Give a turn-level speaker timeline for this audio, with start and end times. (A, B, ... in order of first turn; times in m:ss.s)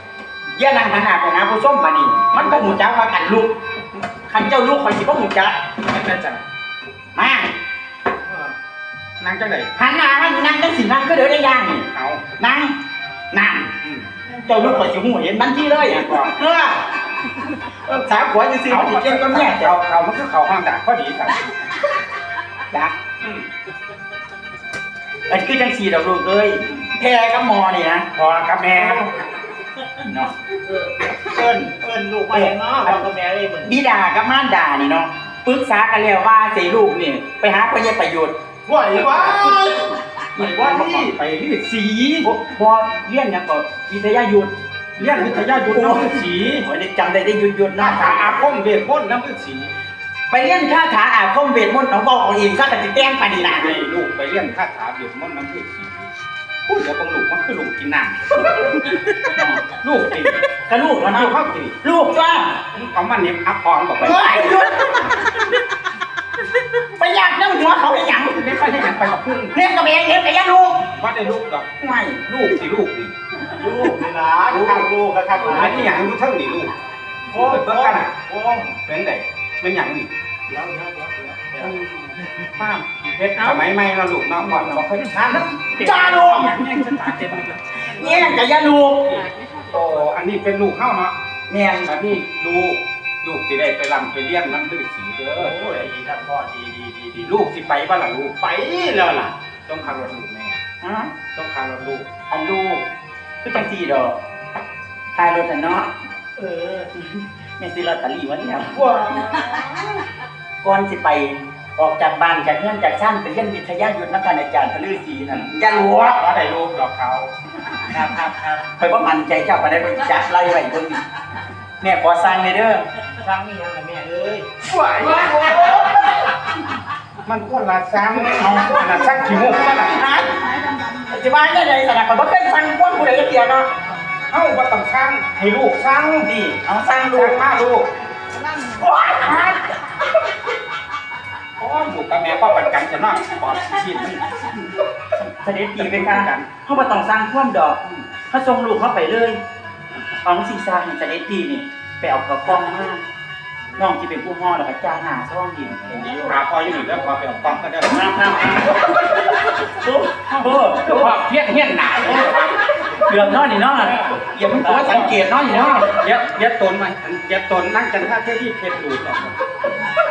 0:00.6-0:03.5 A
0:02.3-0:02.8 B
0:04.3-0:05.6 A
0:05.9-0:06.4 B
0:07.2-0:07.5 A
0:08.3-0:08.5 C
0:09.2-0:09.7 B
0:09.8-0:12.8 A
0:11.9-0:12.2 B
0:13.3-0:13.7 A
0:13.8-0:14.9 B
0:14.4-0:19.8 A
0:15.7-0:16.4 B
0:18.7-0:21.6 B
0:25.3-0:28.1 A
0:28.2-0:29.1 B
0:28.7-0:29.1 C
0:30.0-0:30.3 A
0:30.7-0:33.8 C
0:32.3-0:33.0 A
0:33.6-0:38.4 A
0:38.7-0:41.1 C
0:40.4-0:42.3 B
0:42.2-0:44.5 A
0:45.0-0:46.6 B
0:45.6-0:48.4 A
0:47.8-0:49.7 B
0:50.3-0:53.9 A
0:53.3-0:56.1 B
0:56.7-0:58.5 B
0:58.7-0:59.6 A
0:59.7-1:00.4 B
1:00.7-1:02.6 A
1:01.1-1:01.8 B
1:02.7-1:04.6 B
1:04.0-1:05.4 A
1:06.7-1:08.7 A
1:08.3-1:09.6 B
1:09.5-1:10.9 A
1:10.9-1:11.7 B
1:11.8-1:12.2 A
1:12.2-1:13.1 B
1:13.6-1:16.0 C
1:14.5-1:14.9 B
1:15.4-1:16.7 B
1:17.3-1:18.8 C
1:17.4-1:18.2 B
1:18.8-1:20.1 B
1:20.5-1:21.7 C
1:21.6-1:22.8 A
1:22.9-1:27.9 B
1:23.4-1:23.7 A
1:24.4-1:29.2 A
1:29.1-1:31.1 B
1:29.2-1:29.9 C
1:31.5-1:31.9 A
1:31.8-1:35.9 B
1:35.4-1:37.2 C
1:37.2-1:38.4 B
1:38.4-1:39.3 C
1:39.7-1:40.6 B
1:40.8-1:41.2 A
1:41.3-1:42.1 B
1:42.3-1:42.8 A
1:43.4-1:44.2 A
1:45.2-1:45.9 A
1:46.4-1:46.9 C
1:46.9-1:48.9 A
1:48.6-1:50.0 C
1:50.6-1:56.2 A
1:55.3-1:57.3 B
1:58.1-1:58.4 B
1:58.6-2:01.0 A
2:01.8-2:02.9 A
2:03.2-2:04.5 C
2:04.7-2:05.5 B
2:05.0-2:06.2 C
2:07.2-2:10.0 B
2:08.3-2:09.2 C
2:08.3-2:13.7 A
2:14.3-2:16.3 B
2:16.2-2:17.4 A
2:17.1-2:17.9 B
2:18.3-2:18.8 C
2:18.8-2:19.8 A
2:21.6-2:24.2 B
2:25.2-2:29.4 A
2:25.8-2:26.5 B
2:30.2-2:33.0 A
2:33.8-2:36.3 A
2:35.9-2:38.1 B
2:37.9-2:41.2 A
2:40.7-2:42.6 B
2:42.9-2:46.0 A
2:44.6-2:49.4 B